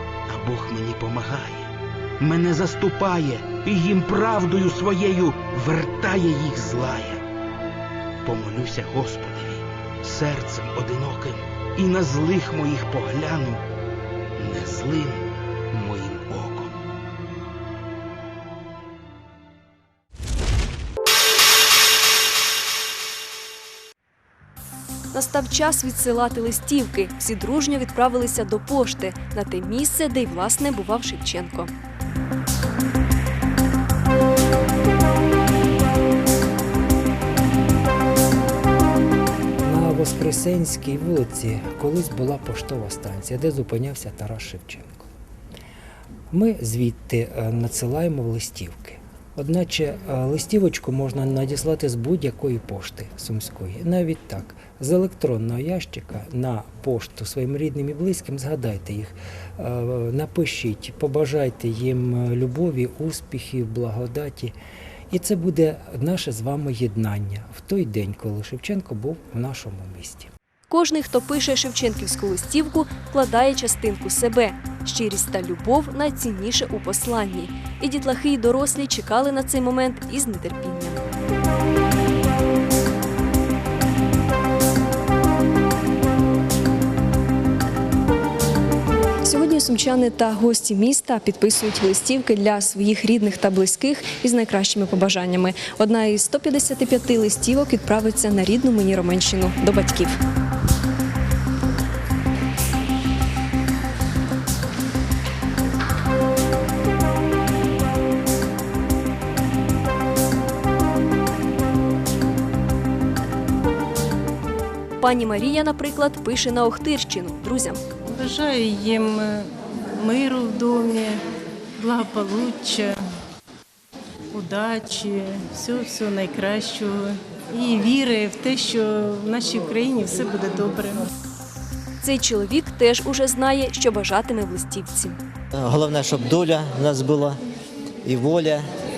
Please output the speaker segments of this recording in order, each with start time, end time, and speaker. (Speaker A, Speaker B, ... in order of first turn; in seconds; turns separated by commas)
Speaker A: 0.3-7.2, Speaker A: 8.2-13.6, Speaker A: 14.4-16.8, Speaker B: 25.1-31.7, Speaker C: 39.6-45.1, Speaker C: 46.3-64.5, Speaker C: 65.1-70.3, Speaker B: 70.7-81.0, Speaker B: 89.2-100.2, Speaker B: 115.0-117.8, Speaker D: 118.1-121.2, Speaker D: 121.8-123.0, Speaker D: 124.3-131.1, Speaker B: 132.0-135.2, Speaker E: 135.6-137.4, Speaker E: 138.1-138.7